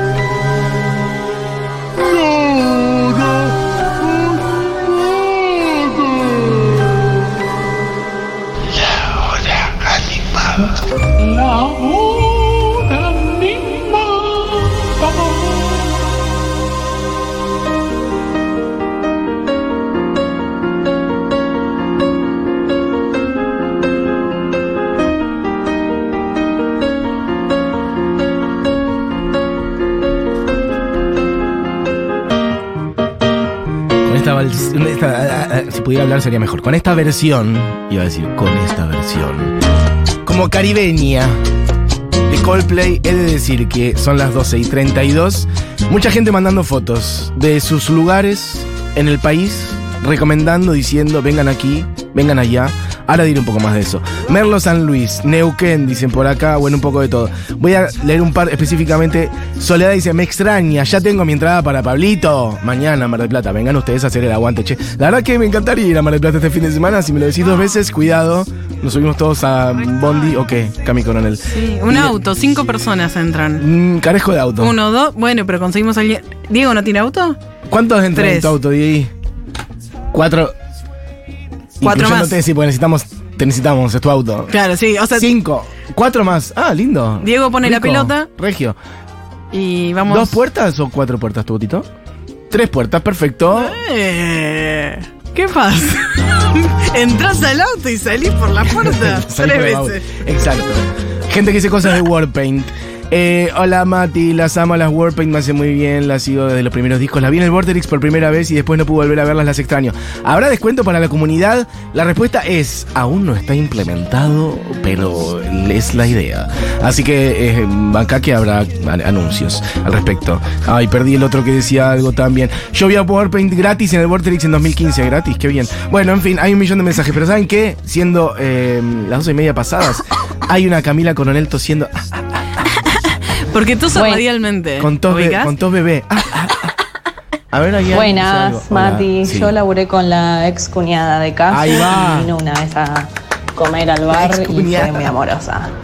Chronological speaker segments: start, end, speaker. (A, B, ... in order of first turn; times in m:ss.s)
0:02.0-0:03.5 A
0:05.0-0:06.4 A
0:08.7-0:15.5 A
0:34.0-0:39.6 B
0:40.2-0:41.4 B
0:42.3-1:12.2 B
1:07.4-1:07.8 C
1:11.5-1:13.6 C
1:13.6-1:14.8 B
1:14.6-1:17.4 C
1:17.7-1:19.1 B
1:18.1-1:18.6 C
1:20.1-1:20.6 B
1:21.8-1:24.5 B
1:21.8-1:22.4 C
1:24.5-1:25.3 C
1:25.1-1:28.8 B
1:27.2-1:28.3 C
1:29.5-1:30.4 C
1:30.1-1:31.9 B
1:32.5-1:33.8 B
1:33.5-1:40.2 C
1:38.7-2:12.2 B
2:12.6-2:15.5 C
2:13.9-2:14.2 D
2:14.8-2:16.7 B
2:17.5-2:19.5 B
2:17.9-2:25.7 D
2:21.5-2:22.3 B
2:24.1-2:25.1 B